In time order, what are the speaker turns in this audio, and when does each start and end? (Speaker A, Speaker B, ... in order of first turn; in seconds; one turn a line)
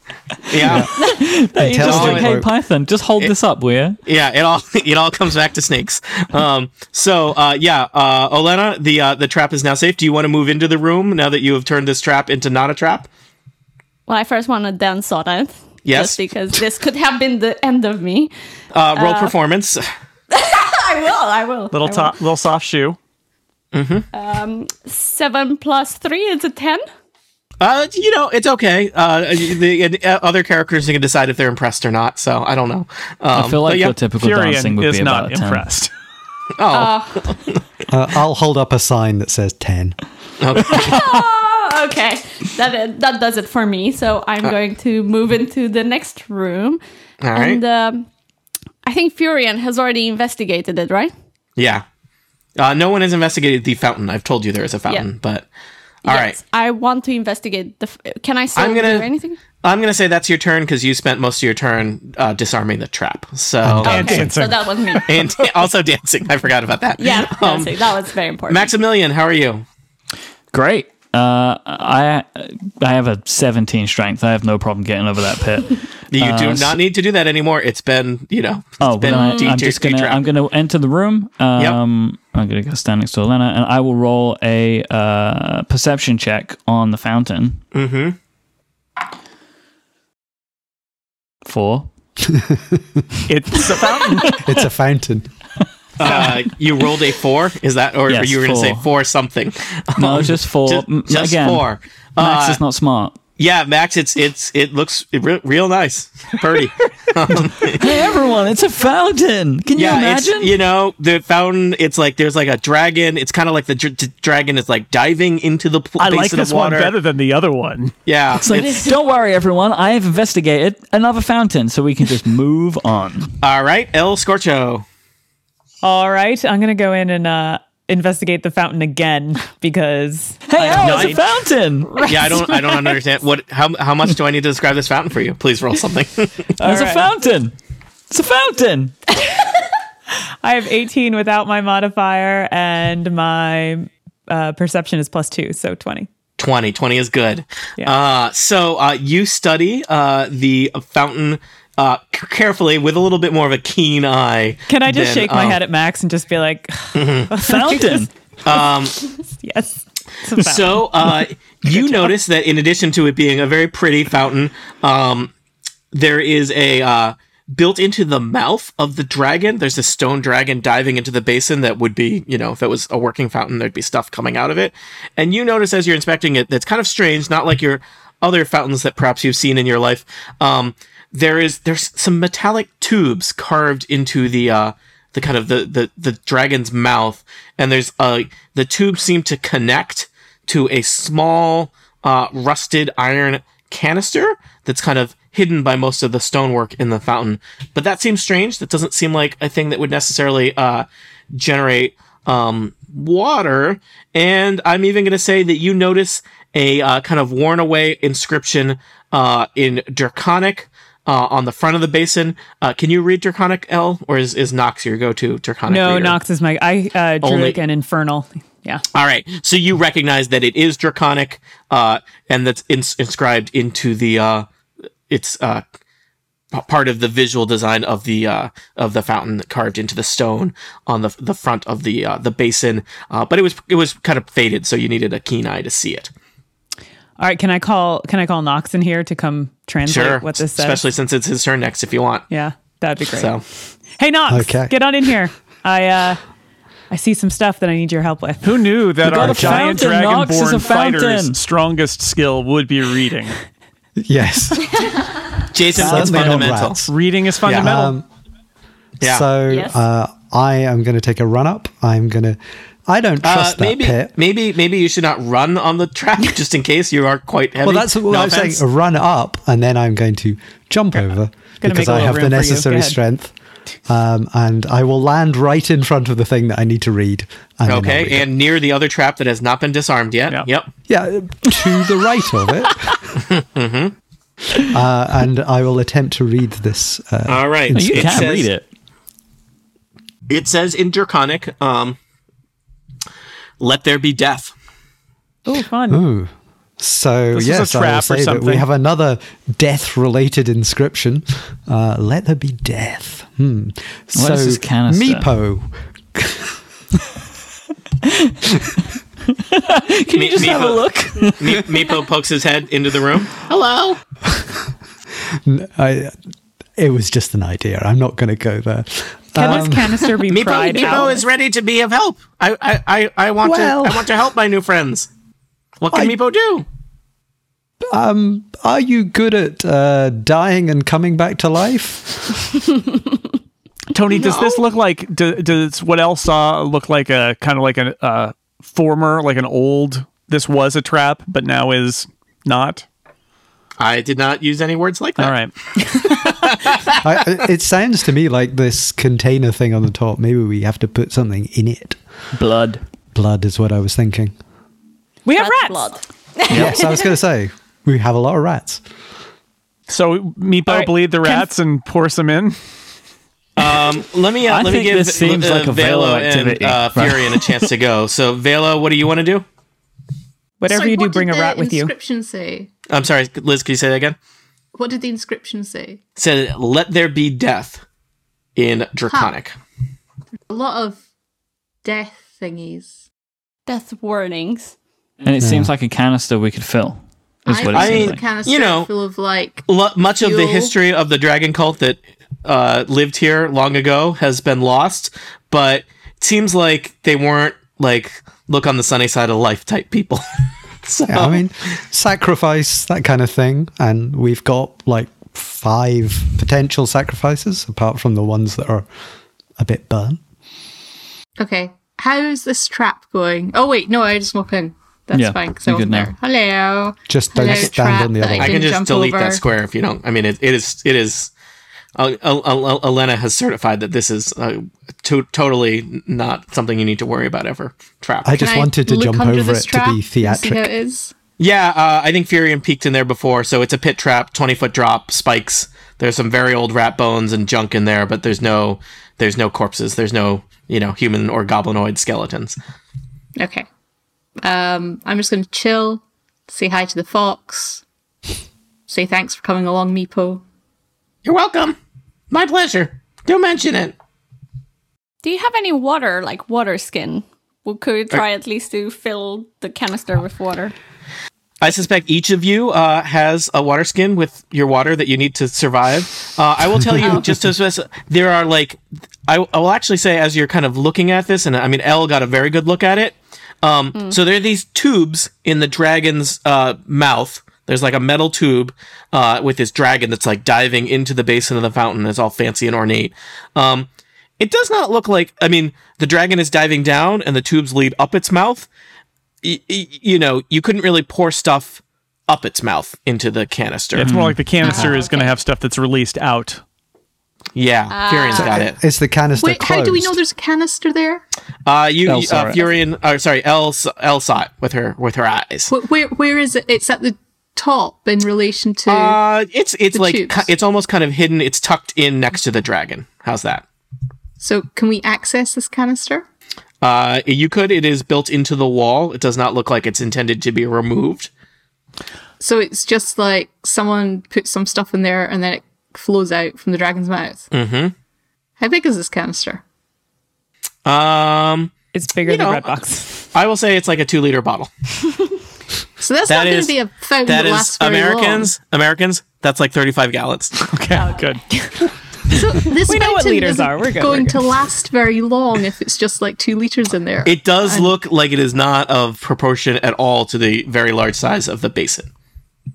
Speaker A: 0.5-0.9
Speaker B: 0.6-4.0
Speaker C: 1.6-2.5
Speaker A: 1.8-2.3
Speaker A: 4.0-13.1
Speaker D: 14.1-18.3
Speaker A: 15.8-16.2
Speaker A: 18.7-19.9
Speaker D: 18.9-19.4
Speaker D: 20.3-22.2
Speaker E: 21.7-23.0
Speaker A: 23.7-24.1
Speaker D: 24.1-26.9
Speaker A: 27.6-34.0
Speaker B: 33.3-35.7
Speaker E: 34.2-35.9
Speaker A: 36.6-37.6
Speaker D: 36.7-37.4
Speaker C: 37.9-40.0
Speaker A: 40.4-41.0
Speaker D: 40.6-46.8
Speaker A: 47.2-47.6
Speaker D: 47.3-48.1
Speaker D: 48.9-51.1
Speaker A: 51.6-51.9
Speaker A: 52.6-55.5
Speaker D: 56.0-59.4
Speaker A: 56.1-56.4
Speaker A: 58.5-59.1
Speaker A: 59.6-64.2
Speaker C: 63.6-64.3
Speaker E: 63.8-65.0
Speaker D: 63.9-65.2
Speaker A: 65.1-67.7
Speaker D: 67.0-68.7
Speaker A: 68.5-69.7
Speaker B: 70.5-76.8
Speaker A: 76.1-80.2
Speaker B: 78.8-87.6
Speaker D: 79.1-79.6
Speaker A: 87.7-88.2
Speaker B: 91.5-91.9
Speaker C: 92.3-93.0
Speaker E: 93.3-94.4
Speaker C: 94.4-95.3
Speaker A: 96.0-102.6
Speaker B: 98.1-98.9
Speaker B: 100.0-101.7
Speaker B: 102.2-103.2
Speaker A: 103.4-107.9
Speaker B: 107.7-110.5
Speaker A: 109.8-116.9
Speaker E: 116.0-118.0
Speaker A: 118.1-118.7
Speaker B: 118.4-123.4
Speaker D: 118.5-118.9
Speaker A: 123.4-124.8
Speaker F: 125.8-131.2
Speaker B: 130.5-132.3
Speaker A: 132.0-136.5
Speaker B: 136.6-137.6
Speaker F: 136.6-137.1
Speaker B: 138.1-139.0
Speaker F: 140.4-146.1
Speaker A: 146.4-155.6
Speaker F: 154.7-158.6
Speaker A: 156.9-157.3
Speaker B: 157.4-158.1
Speaker A: 158.4-159.0
Speaker F: 159.3-162.1
Speaker A: 160.4-165.3
Speaker A: 165.9-216.2
Speaker F: 215.7-218.8
Speaker A: 217.2-217.6
Speaker A: 218.9-224.5
Speaker A: 225.1-225.6
Speaker A: 226.5-236.1
Speaker F: 237.2-240.8
Speaker A: 239.8-242.2
Speaker F: 242.3-243.4
Speaker A: 243.1-243.4
Speaker F: 244.0-246.2
Speaker C: 244.3-244.7
Speaker F: 246.9-248.6
Speaker E: 248.4-253.4
Speaker B: 249.0-251.4
Speaker C: 254.0-254.7
Speaker A: 255.5-256.9
Speaker B: 255.8-256.6
Speaker C: 255.8-256.9
Speaker E: 256.9-258.0
Speaker A: 257.4-257.7
Speaker C: 257.5-258.1
Speaker A: 259.0-259.3
Speaker C: 259.0-264.1
Speaker D: 259.5-259.8
Speaker A: 263.2-268.6
Speaker C: 267.6-273.3
Speaker F: 271.6-273.0
Speaker C: 273.9-278.3
Speaker A: 277.7-280.7
Speaker C: 280.9-283.0
Speaker A: 283.2-283.9
Speaker C: 284.6-288.1
Speaker A: 287.3-288.5
Speaker B: 287.7-288.7
Speaker A: 290.3-292.0
Speaker A: 293.6-294.5
Speaker F: 295.5-296.0
Speaker C: 295.9-306.5
Speaker E: 297.3-298.6
Speaker B: 304.1-305.3
Speaker B: 308.1-308.4
Speaker B: 309.4-311.9
Speaker A: 310.1-314.0
Speaker C: 314.3-314.6
Speaker C: 315.3-316.2
Speaker C: 316.8-320.0
Speaker F: 319.4-321.2
Speaker A: 320.3-325.1
Speaker D: 320.7-321.1
Speaker C: 323.4-324.1
Speaker A: 325.8-326.6
Speaker C: 327.8-332.4
Speaker E: 333.9-342.9
Speaker A: 334.1-334.6
Speaker A: 343.8-345.4
Speaker E: 345.2-346.1
Speaker A: 346.0-347.0
Speaker C: 347.0-352.0
Speaker B: 352.3-352.8
Speaker C: 353.1-354.3
Speaker F: 355.2-356.0
Speaker D: 355.3-357.2
Speaker C: 356.5-358.8
Speaker E: 359.9-362.6
Speaker F: 360.7-361.4
Speaker A: 363.6-369.4
Speaker B: 364.5-367.7
Speaker F: 370.6-371.9
Speaker G: 370.7-372.7
Speaker A: 372.9-374.2
Speaker G: 374.8-376.0
Speaker A: 376.2-377.8
Speaker A: 378.6-379.5
Speaker G: 380.5-381.0
Speaker G: 381.8-383.0
Speaker D: 383.7-384.7
Speaker B: 385.2-388.2
Speaker C: 385.4-385.7
Speaker G: 387.5-389.7
Speaker A: 387.7-388.9
Speaker A: 389.7-400.2
Speaker G: 390.2-390.7
Speaker A: 400.8-401.4
Speaker C: 401.1-408.9
Speaker C: 409.6-410.2
Speaker G: 411.4-419.4
Speaker B: 415.1-416.1
Speaker C: 417.1-418.6
Speaker A: 417.5-417.7
Speaker A: 418.4-421.3
Speaker A: 422.0-428.5
Speaker C: 428.2-430.7
Speaker G: 428.4-431.1
Speaker A: 431.4-442.6
Speaker G: 443.4-443.7
Speaker G: 444.4-447.8
Speaker G: 448.9-450.4
Speaker A: 451.2-451.8
Speaker A: 452.3-453.9
Speaker D: 455.2-460.7
Speaker A: 461.6-483.9
Speaker D: 467.0-467.3
Speaker A: 484.4-488.7
Speaker A: 489.4-494.1
Speaker E: 494.0-496.6
Speaker B: 494.0-494.5
Speaker D: 494.6-495.4
Speaker A: 497.6-498.8
Speaker D: 497.9-498.7
Speaker C: 498.8-500.2
Speaker G: 499.4-501.2
Speaker A: 501.7-505.7
Speaker B: 502.1-502.6
Speaker G: 505.7-509.2
Speaker A: 508.9-513.6
Speaker G: 509.9-510.5
Speaker G: 514.4-516.3
Speaker A: 516.8-521.3
Speaker G: 522.4-527.5
Speaker A: 527.5-527.9
Speaker G: 528.6-529.6
Speaker A: 530.9-531.7
Speaker F: 531.9-533.2
Speaker A: 532.2-532.8
Speaker A: 533.3-534.7
Speaker G: 536.0-538.5
Speaker A: 536.3-540.7
Speaker E: 540.6-541.9
Speaker D: 540.9-541.4
Speaker G: 542.3-548.0
Speaker F: 542.9-544.4
Speaker A: 547.2-552.1